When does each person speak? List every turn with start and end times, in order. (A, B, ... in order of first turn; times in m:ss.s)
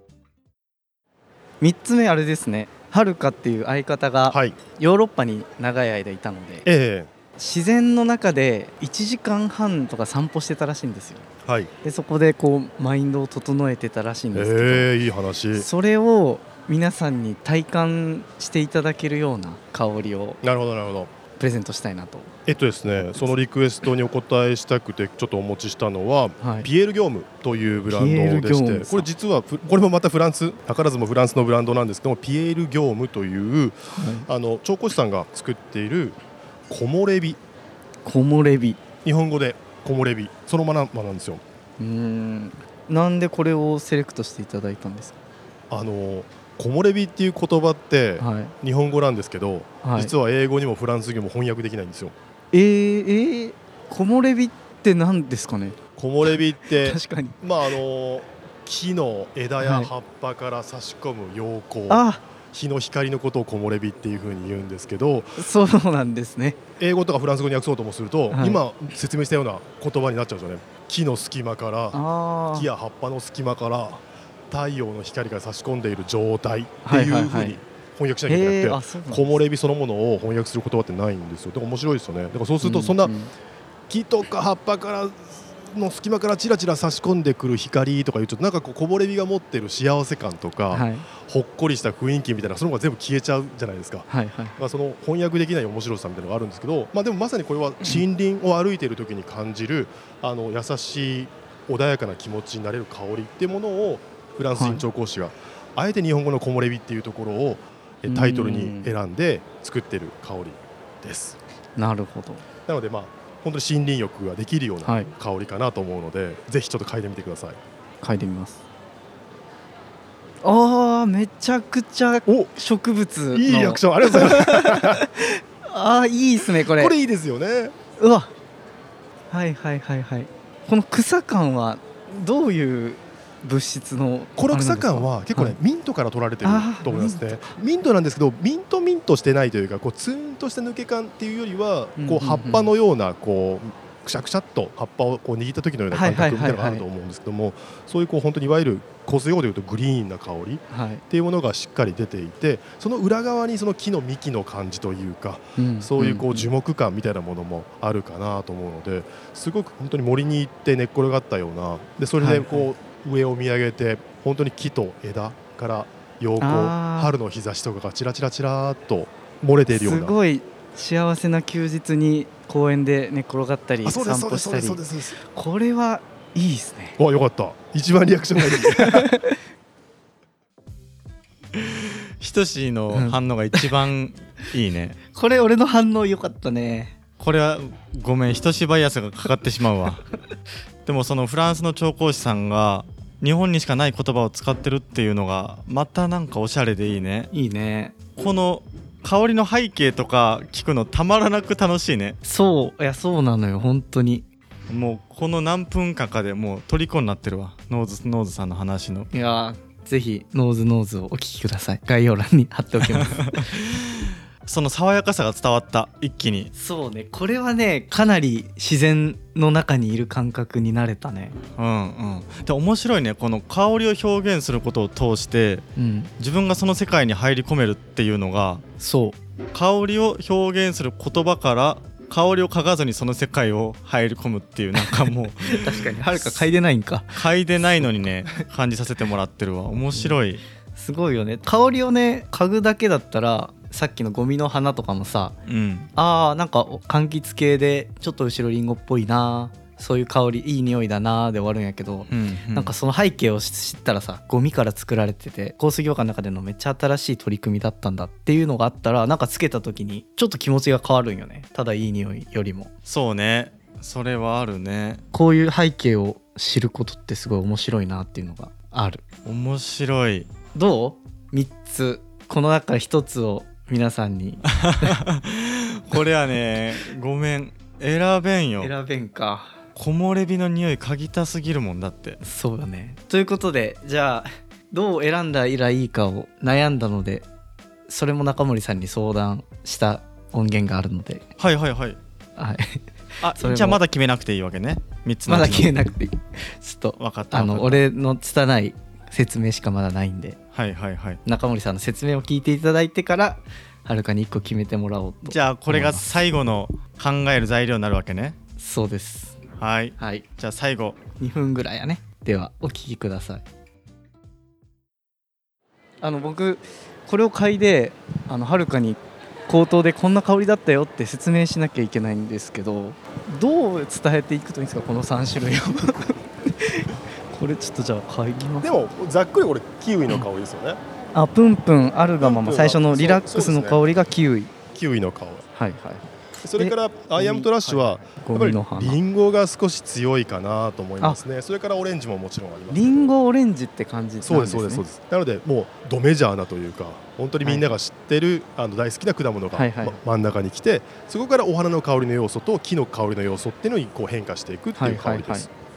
0:01.6-0:06.7 A
0:04.3-0:04.6 B
0:06.6-0:07.1 B
0:07.4-0:11.3 A
0:11.4-0:11.7 B
0:11.8-0:14.9 A
0:14.3-0:15.7 B
0:15.5-0:20.4 A
0:20.4-0:21.1 B
0:21.4-0:22.3 A
0:22.5-0:36.2 B
0:26.4-0:26.7 A
0:27.9-0:29.1 A
0:33.9-0:34.3 A
0:36.7-0:37.4 B
0:38.0-0:38.8 A
0:39.0-0:41.4 B
0:41.8-0:45.2 A
0:45.7-0:52.1 B
0:48.2-0:48.5 A
0:49.8-0:50.1 A
0:52.5-0:57.4 A
0:56.0-1:05.4 B
0:59.6-0:59.9 A
1:01.9-1:02.2 A
1:05.4-1:06.6 A
1:06.8-1:12.0 B
1:08.3-1:08.6 A
1:11.9-1:12.7 A
1:12.5-1:23.1 B
1:16.8-1:17.6 A
1:18.3-1:19.3 A
1:22.6-1:23.3 A
1:23.9-1:51.4 B
1:30.7-1:31.1 A
1:34.1-1:34.6 A
1:44.6-1:44.8 A
1:48.1-1:48.9 A
1:51.8-1:52.4 A
1:52.7-1:57.6 B
1:54.8-1:55.1 A
1:58.0-1:58.6 A
2:00.4-2:06.9 A
2:03.3-2:05.1 B
2:06.6-2:07.7 B
2:08.0-2:08.3 A
2:09.3-2:15.6 A
2:14.4-2:50.1 B
2:16.4-2:17.5 A
2:22.0-2:22.7 A
2:25.9-2:26.8 A
2:30.7-2:31.0 A
2:35.6-2:36.5 A
2:42.2-2:42.7 A
2:46.4-2:47.2 A
2:49.7-2:57.0 A
2:53.8-2:55.2 B
2:57.0-2:59.1 B
2:58.4-2:59.4 A
3:01.5-3:05.0 C
3:02.9-3:03.7 A
3:05.1-3:06.9 A
3:07.2-3:10.0 C
3:10.8-3:17.3 C
3:17.3-3:18.0 A
3:18.2-3:22.2 C
3:22.2-3:24.2 A
3:24.7-3:29.1 C
3:29.1-3:33.5 A
3:32.8-3:36.5 C
3:36.5-3:41.4 A
3:41.6-3:45.6 C
3:45.8-3:46.1 A
3:46.2-3:48.6 C
3:48.8-3:49.2 A
3:49.5-3:56.4 C
3:54.8-3:57.2 A
3:57.1-4:00.4 C
4:00.7-4:05.3 A
4:05.5-4:05.9 C
4:06.0-4:22.7 A
4:12.1-4:12.7 C
4:22.8-4:25.0 C
4:25.1-4:29.0 A
4:29.2-4:30.3 C
4:30.5-4:34.9 A
4:34.5-4:38.7 C
4:38.6-4:39.5 A
4:39.8-4:42.2 C
4:42.2-4:47.2 A
4:47.9-4:51.3 A
4:51.4-4:52.0 C
4:52.4-4:53.8 A
4:53.2-4:55.8 C
4:55.3-5:00.4 A
4:57.0-4:57.8 C
5:00.5-5:01.2 C
5:01.2-5:06.1 A
5:05.3-5:08.4 C
5:08.6-5:09.4 A
5:09.6-5:11.0 C
5:10.0-5:10.2 A
5:11.2-5:13.4 A
5:16.0-5:28.7 A
5:28.6-5:30.8 B
5:31.1-5:34.5 A
5:32.2-5:33.8 B
5:34.7-5:35.4 B
5:35.5-5:36.0 A
5:36.4-5:43.1 B
5:36.6-5:39.0 A
5:42.7-5:44.8 A
5:44.2-5:55.5 B
5:47.4-5:47.8 A
5:49.5-5:50.0 A
5:54.8-5:55.5 A